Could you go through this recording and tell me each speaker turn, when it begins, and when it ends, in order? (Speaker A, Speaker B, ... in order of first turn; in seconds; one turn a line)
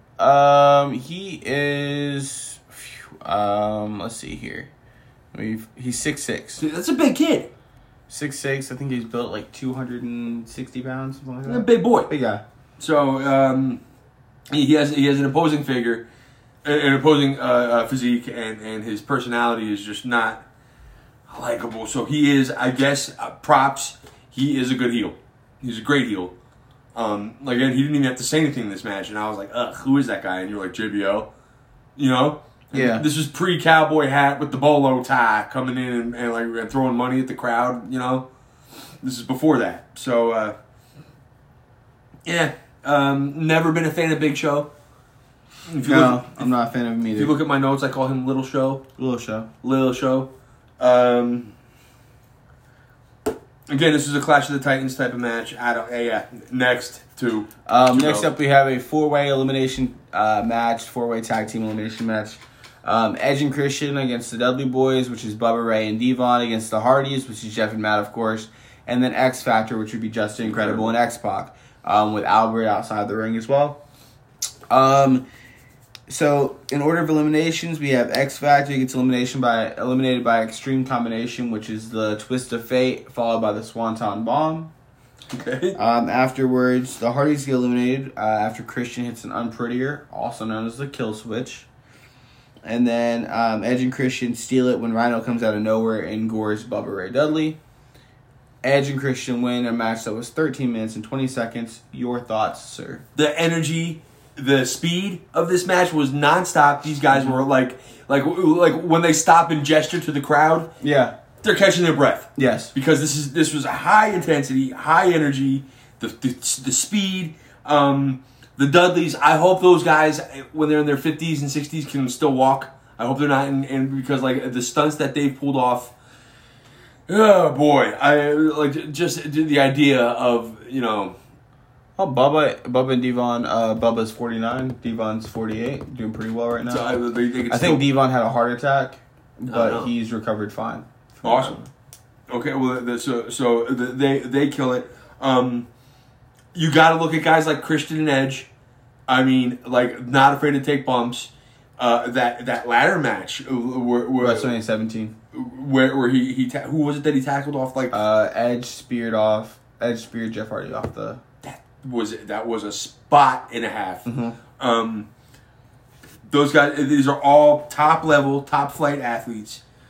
Speaker A: 0.2-4.7
Speaker A: 5.3-6.6
Speaker B: 6.6-7.5
Speaker A: 8.1-12.4
Speaker B: 11.4-12.1
Speaker B: 12.8-13.8
Speaker B: 14.5-16.1
Speaker B: 16.6-20.4
Speaker B: 21.3-26.3
Speaker B: 26.9-31.3
Speaker B: 31.9-38.3
Speaker A: 32.7-33.0
Speaker B: 39.0-40.5
Speaker B: 42.2-44.7
Speaker B: 45.6-46.5
Speaker A: 45.8-47.4
Speaker B: 47.1-48.8
Speaker A: 49.0-49.5
Speaker B: 49.6-51.5
Speaker B: 53.7-58.3
Speaker A: 57.6-73.8
Speaker B: 70.4-70.9
Speaker A: 74.7-75.2
Speaker A: 76.1-84.7
Speaker B: 85.3-85.8
Speaker A: 85.8-91.7
Speaker A: 92.6-97.6
Speaker A: 98.6-103.0
Speaker B: 103.1-110.7
Speaker A: 107.1-107.4
Speaker A: 110.8-111.1
Speaker B: 111.4-125.9
Speaker A: 112.3-112.7
Speaker B: 127.1-131.2
Speaker A: 132.0-136.9
Speaker B: 136.7-137.8
Speaker A: 137.5-141.7
Speaker B: 139.5-139.9
Speaker B: 141.2-141.6
Speaker B: 142.3-145.7
Speaker B: 146.5-148.5
Speaker B: 149.1-154.5
Speaker A: 154.2-155.1
Speaker B: 155.3-157.9
Speaker A: 157.9-161.2
Speaker B: 161.4-164.1
Speaker A: 164.1-164.4
Speaker B: 164.6-165.1
Speaker B: 166.3-169.6